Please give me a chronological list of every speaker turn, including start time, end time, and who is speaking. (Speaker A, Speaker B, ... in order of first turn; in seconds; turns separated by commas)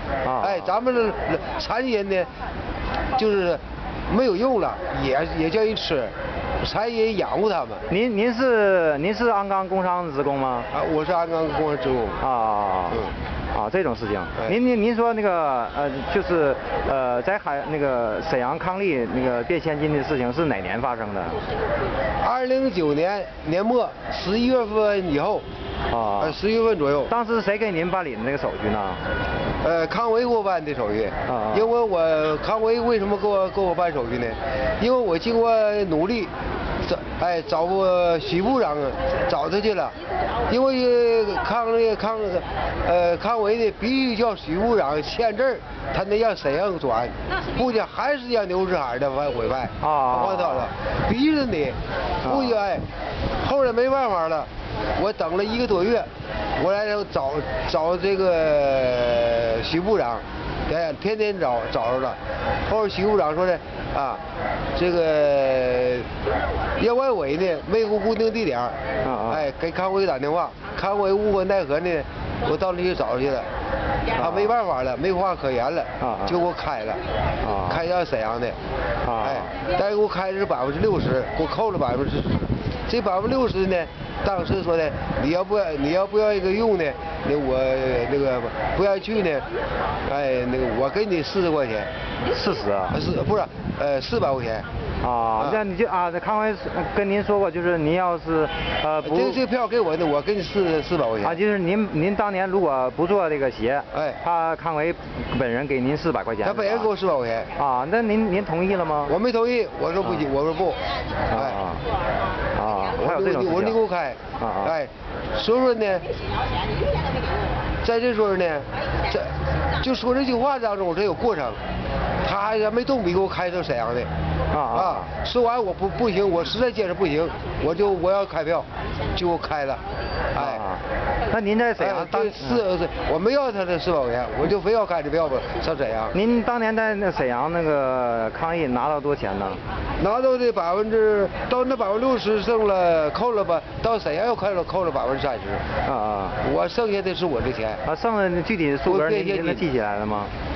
Speaker A: 0.2-0.7, Speaker B: 0.4-2.3, Speaker B: 3.1-7.8, Speaker A: 7.9-10.7, Speaker B: 10.7-12.2, Speaker A: 12.2-21.4, Speaker B: 22.2-25.4, Speaker A: 25.9-26.4, Speaker B: 26.2-27.1, Speaker A: 27.1-29.0, Speaker B: 29.6-36.3, Speaker A: 31.2-31.7, Speaker B: 36.8-40.0, Speaker B: 40.5-52.8, Speaker A: 49.8-50.7, Speaker A: 52.2-52.6, Speaker B: 53.4-64.2, Speaker B: 64.7-66.1, Speaker B: 66.8-68.8, Speaker A: 69.0-69.4, Speaker B: 69.3-73.5, Speaker B: 74.1-77.0, Speaker A: 74.2-74.5, Speaker A: 76.0-76.4, Speaker A: 77.4-77.8, Speaker B: 77.6-78.6, Speaker A: 79.0-79.5, Speaker B: 79.2-89.5, Speaker B: 90.0-91.9, Speaker A: 92.2-93.0, Speaker B: 92.9-94.7, Speaker A: 95.0-99.4, Speaker B: 99.0-101.4, Speaker A: 101.2-106.9, Speaker B: 103.9-104.2, Speaker B: 106.4-107.5, Speaker A: 107.5-109.2, Speaker B: 109.1-111.6, Speaker A: 111.3-111.8, Speaker A: 112.5-113.8, Speaker B: 112.8-116.1, Speaker A: 114.4-114.7, Speaker B: 117.8-121.6, Speaker B: 122.2-124.1, Speaker A: 124.5-125.1, Speaker B: 124.7-130.7, Speaker A: 130.3-132.6, Speaker B: 131.8-136.2, Speaker A: 136.1-139.6, Speaker B: 140.0-145.6, Speaker A: 145.8-146.4, Speaker B: 146.4-147.8, Speaker A: 147.8-150.3, Speaker B: 148.9-149.7